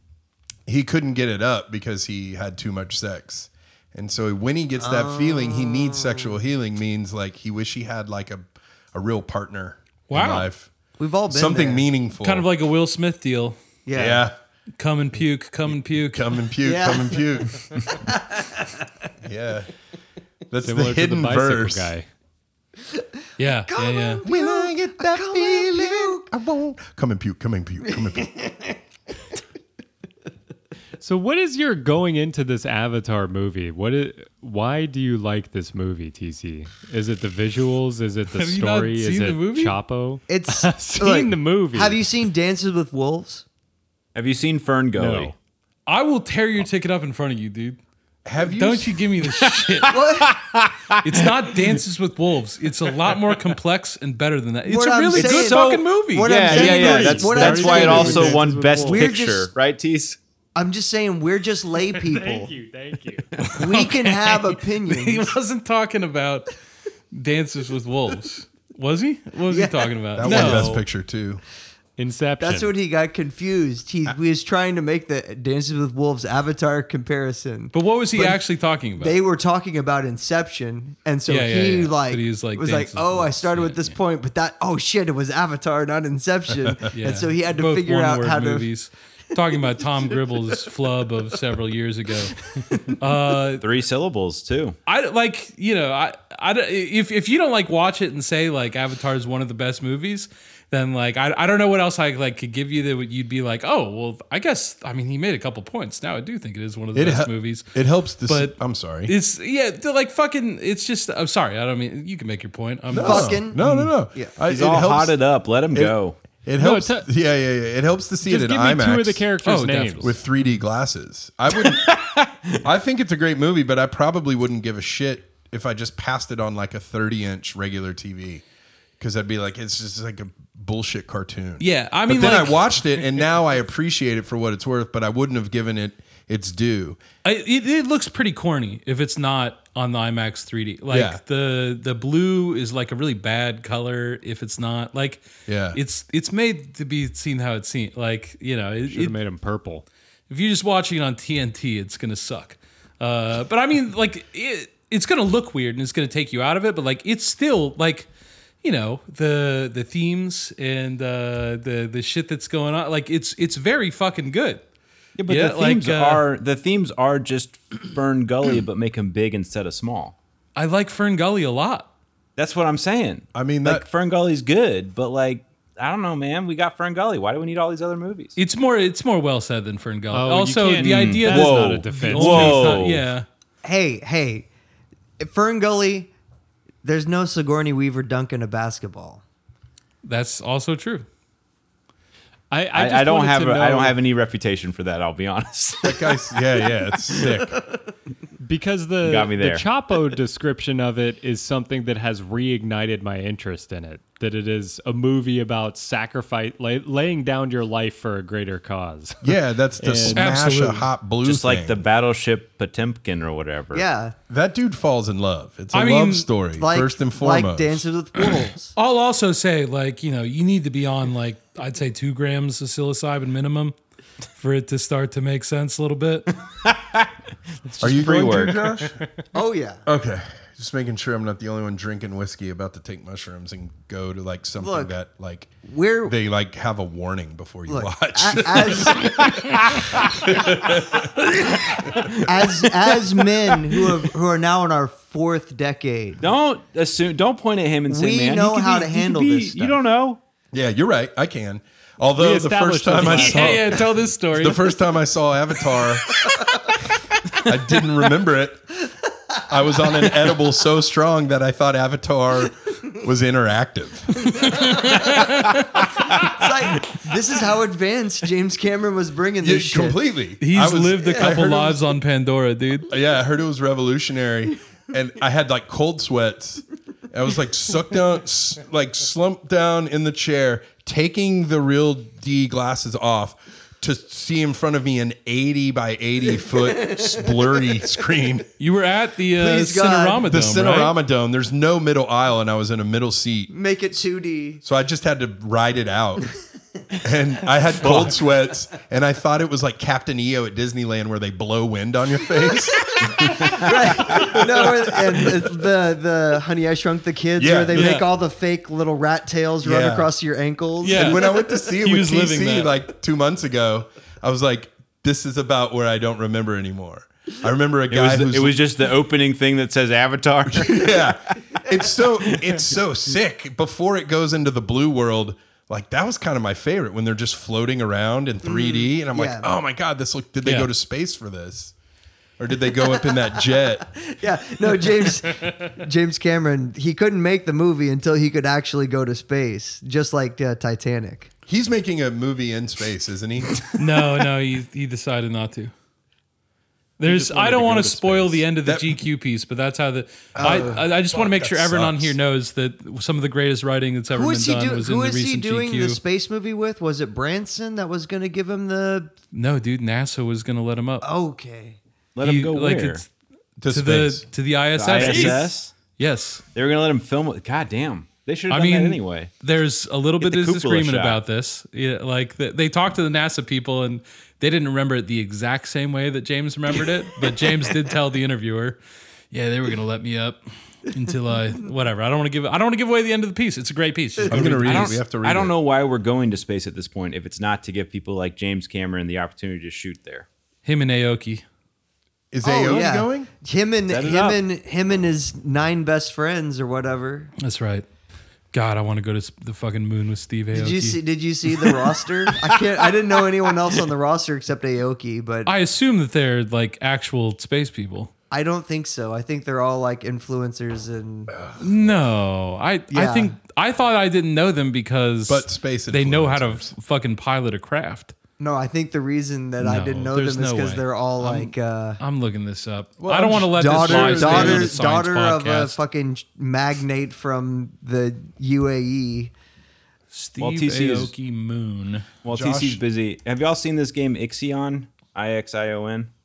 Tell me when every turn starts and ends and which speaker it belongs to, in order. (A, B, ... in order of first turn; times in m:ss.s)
0:00.7-0:10.7 A
0:04.8-0:06.4 B
0:10.1-0:10.5 C
0:11.0-0:11.9 B
0:11.3-0:12.5 A
0:12.2-0:13.6 C
0:13.8-0:14.3 B
0:13.9-0:14.3 A
0:14.8-0:16.4 C
0:15.7-0:17.9 A
0:16.6-0:17.4 B
0:18.0-0:18.8 B
0:19.2-0:19.7 A
0:20.5-0:21.9 A
0:20.6-0:22.0 D
0:23.4-0:24.2 C
0:23.7-0:26.3 B
0:24.2-0:28.3 A
0:27.9-0:28.7 B
0:31.0-0:42.0 D
0:38.3-0:39.8 C
0:40.3-0:43.4 B
0:44.1-0:45.3 E
0:45.0-0:45.3 D
0:45.9-0:47.8 C
0:48.2-0:49.0 A
0:48.4-0:49.9 C
0:49.6-0:51.5 E
0:49.9-0:50.3 B
0:51.0-0:57.1 C
0:54.6-0:59.5 B
0:55.1-1:00.2 E
0:56.5-0:59.1 D
1:00.6-1:02.5 B
1:02.0-1:03.3 D
1:03.4-1:06.5 C
1:03.6-1:05.3 B
1:07.1-1:10.8 C
1:09.5-1:10.7 B
1:10.2-1:11.4 A
1:12.0-1:12.7 D
1:12.4-1:18.4 B
1:17.7-1:19.2 C
1:19.0-1:28.7 B
1:21.3-1:24.0 C
1:26.9-1:33.6 C
1:32.7-1:32.9 B
1:33.6-1:34.8 E
1:34.8-1:47.7 C
1:46.9-1:49.1 A
1:48.2-1:53.9 C
1:52.9-1:55.2 A
1:53.0-1:53.6 B
1:54.5-1:56.2 E
1:55.7-1:59.2 A
1:56.6-1:57.1 D
1:58.2-2:00.1 D
1:59.4-2:00.2 C
2:00.0-2:02.0 A
2:01.5-2:02.5 E
2:02.6-2:08.4 A
2:09.0-2:17.0 A
2:11.6-2:12.8 C
2:17.2-2:29.2 C
2:20.9-2:21.2 A
2:25.5-2:25.8 A
2:28.9-2:29.8 D
2:30.3-2:38.1 C
2:38.6-2:44.6 C
2:45.2-2:50.1 E
2:45.3-2:46.2 C
2:50.6-2:51.9 C
2:52.4-2:58.4 E
2:53.3-2:53.8 A
2:58.4-3:03.2 C
3:00.1-3:02.8 D
3:00.8-3:03.0 E
3:03.6-3:04.5 B
3:05.2-3:06.1 B
3:06.8-3:09.2 B
3:10.0-3:11.0 C
3:12.5-3:14.0 D
3:12.7-3:16.4 E
3:15.8-3:17.6 A
3:18.4-3:30.3 D
3:19.0-3:19.6 E
3:29.2-3:31.8 A
3:30.1-3:30.9 C
3:31.2-3:33.8 E
3:33.7-3:34.1 B
3:34.3-3:37.8 A
3:35.7-3:36.3 C
3:36.6-3:38.7 B
3:38.7-3:43.8 C
3:44.3-3:46.3 C
3:46.6-3:47.1 E
3:47.7-3:48.7 E
3:47.8-3:49.0 A
3:48.1-3:48.4 C
3:49.3-3:49.8 B
3:49.8-3:55.5 A
3:54.6-3:54.9 B
3:55.6-3:56.1 B
3:56.0-4:01.3 A
3:57.7-3:59.3 B
4:01.9-4:02.1 A
4:02.2-4:06.2 B
4:06.2-4:10.2 E
4:07.9-4:09.8 B
4:10.5-4:16.2 A
4:12.2-4:13.8 D
4:13.0-4:14.7 C
4:17.3-4:18.7 A
4:19.5-4:24.7 A
4:24.4-4:25.8 C
4:24.4-4:24.9 B
4:26.1-4:30.0 B
4:29.4-4:31.9 A
4:30.4-4:32.9 C
4:31.0-4:31.3 B
4:32.9-4:48.5 A
4:46.5-4:47.4 B
4:48.6-4:51.0 C
4:49.4-4:50.2 B
4:50.2-4:53.5 A
4:53.5-4:54.6 B
4:54.6-4:56.3 A
4:56.9-5:05.3 A
5:03.2-5:11.5 B
5:07.4-5:08.0 A
5:07.7-5:08.0 C
5:09.6-5:10.1 A
5:10.8-5:12.7 C
5:10.9-5:18.6 A
5:17.9-5:21.2 E
5:20.5-5:31.7 A
5:22.3-5:22.6 E
5:28.4-5:29.5 B
5:30.4-5:30.7 C
5:32.4-5:33.9 A
5:32.8-5:41.3 B
5:41.5-5:43.6 A
5:43.7-5:45.7 C
5:47.0-5:56.0 C
5:47.0-5:48.4 D
5:48.6-5:49.0 A
5:50.3-5:52.2 A
5:50.4-5:50.8 B
5:54.1-5:59.1 B
5:59.3-6:01.1 C
6:01.0-6:01.8 B
6:02.1-6:03.0 E
6:02.2-6:03.1 C
6:03.6-6:04.2 A
6:03.7-6:06.4 C
6:04.8-6:05.7 E
6:05.0-6:05.3 D
6:06.5-6:09.3 E
6:08.5-6:18.8 C
6:10.2-6:11.2 E
6:19.3-6:25.0 C
6:24.3-6:25.5 A
6:24.6-6:30.3 E
6:30.6-6:31.4 C
6:32.3-6:33.3 A
6:32.4-6:37.3 B
6:33.9-6:34.4 E
6:37.4-6:37.8 C
6:38.5-6:41.0 C
6:40.5-6:45.5 B
6:45.4-6:48.1 C
6:48.3-6:51.3 B
6:51.3-6:52.0 A
6:51.6-6:58.1 C
6:52.9-6:53.3 B
6:55.3-6:56.7 A
6:58.4-7:02.0 B
6:59.6-7:05.8 C
7:03.0-7:04.8 A
7:03.5-7:09.3 B
7:10.1-7:12.1 C
7:10.4-7:11.1 E
7:12.2-7:16.1 E
7:12.2-7:12.8 A